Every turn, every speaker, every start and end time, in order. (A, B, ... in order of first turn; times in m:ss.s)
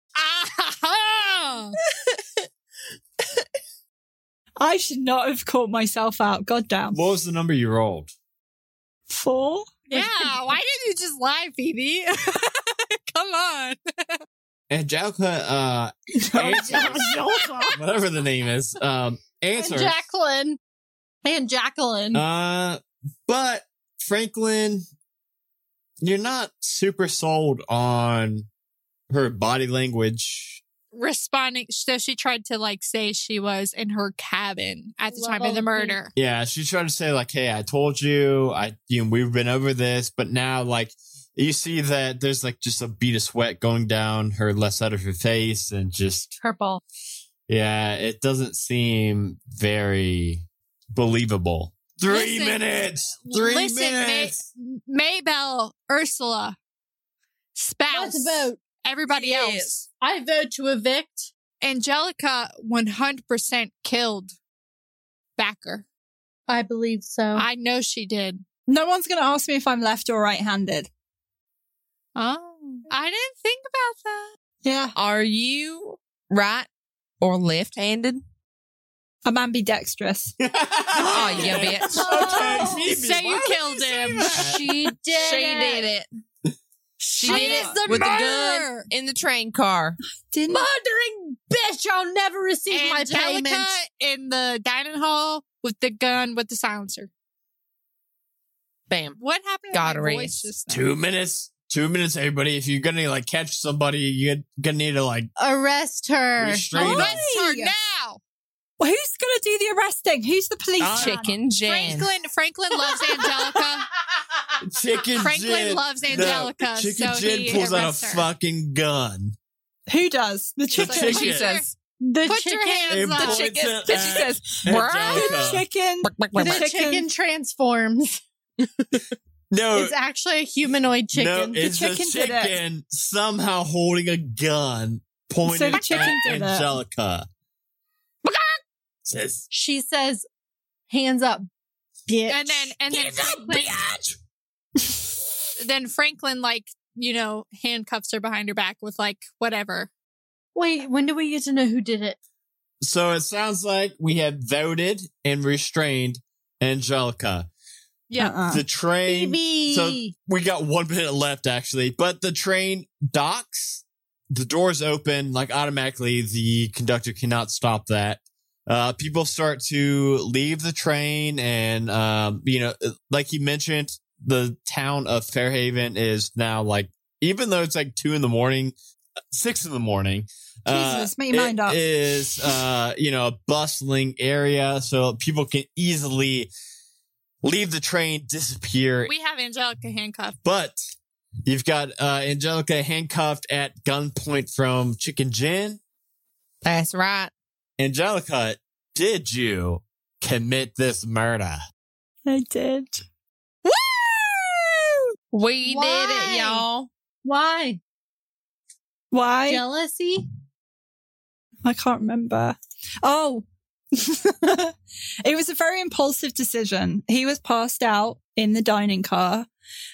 0:00.2-0:01.8 A
0:04.6-0:07.0 B
0:06.9-0:08.1 C
0:09.1-0:10.3 B
0:09.9-0:14.2 A
0:14.7-0:20.0 C
0:16.2-0:17.1 B
0:16.7-0:17.1 A
0:16.7-0:17.0 D
0:19.6-0:20.6 D
0:21.2-0:22.2 D
0:22.1-0:24.8 C
0:26.0-0:28.5 C
0:29.1-0:30.6 C
0:30.9-0:36.1 A
0:35.1-0:36.0 D
0:36.2-0:46.3 C
0:46.4-0:46.8 D
0:47.5-0:54.5 C
0:52.1-0:56.6 A
0:57.6-0:59.9 A
0:57.9-0:58.6 D
0:59.2-1:01.3 D
1:01.6-1:04.3 A
1:05.4-1:05.9 A
1:06.5-1:07.5 D
1:07.4-1:08.4 A
1:08.7-1:10.9 B
1:12.2-1:14.3 A
1:14.6-1:15.0 B
1:15.0-1:16.7 E
1:17.2-1:18.2 E
1:19.2-1:20.3 B
1:20.4-1:24.7 C
1:21.0-1:22.7 B
1:21.1-1:22.3 E
1:21.9-1:22.9 D
1:22.8-1:24.7 A
1:24.2-1:25.9 D
1:25.2-1:26.1 E
1:27.0-1:28.9 A
1:27.2-1:30.0 E
1:27.2-1:28.3 D
1:27.5-1:27.8 B
1:30.2-1:30.7 B
1:30.5-1:33.8 D
1:32.7-1:37.1 A
1:38.9-1:39.2 E
1:39.2-1:40.9 A
1:39.7-1:40.5 E
1:40.7-1:45.3 C
1:45.4-1:46.7 D
1:46.4-1:47.2 C
1:46.7-1:47.7 B
1:46.8-1:48.2 A
1:48.8-1:51.2 B
1:50.8-1:51.2 C
1:50.9-1:52.1 E
1:51.6-1:53.9 A
1:53.2-1:53.6 B
1:54.6-1:59.3 C
1:55.2-1:58.3 A
1:59.9-2:01.3 B
2:00.7-2:01.5 C
2:00.8-2:01.7 A
2:01.0-2:01.7 E
2:02.0-2:03.3 D
2:02.3-2:04.2 A
2:02.9-2:05.6 C
2:03.2-2:05.5 E
2:05.1-2:07.1 B
2:06.0-2:06.7 E
2:06.4-2:08.2 D
2:09.5-2:09.9 C
2:09.7-2:11.7 D
2:11.1-2:17.3 C
2:11.6-2:12.6 B
2:15.4-2:16.8 B
2:15.7-2:16.1 E
2:19.1-2:19.4 C
2:19.5-2:20.3 D
2:20.9-2:21.5 D
2:22.1-2:22.8 D
2:22.3-2:23.9 A
2:22.9-2:24.1 C
2:25.6-2:29.9 A
2:30.6-2:32.2 D
2:32.8-2:37.5 C
2:38.1-2:38.4 A
2:38.2-2:38.6 B
2:38.5-2:58.8 C
2:39.1-2:40.1 D
2:59.3-3:06.5 C
3:00.7-3:02.4 B
3:07.4-3:09.1 C
3:09.1-3:10.4 A
3:10.4-3:10.8 C
3:11.5-3:15.8 C
3:16.6-3:17.3 E
3:17.8-3:21.6 C
3:22.3-3:23.0 B
3:25.3-3:26.9 E
3:25.6-3:26.7 D
3:27.2-3:27.8 D
3:29.1-3:29.6 B
3:29.5-3:30.2 D
3:31.6-3:39.5 B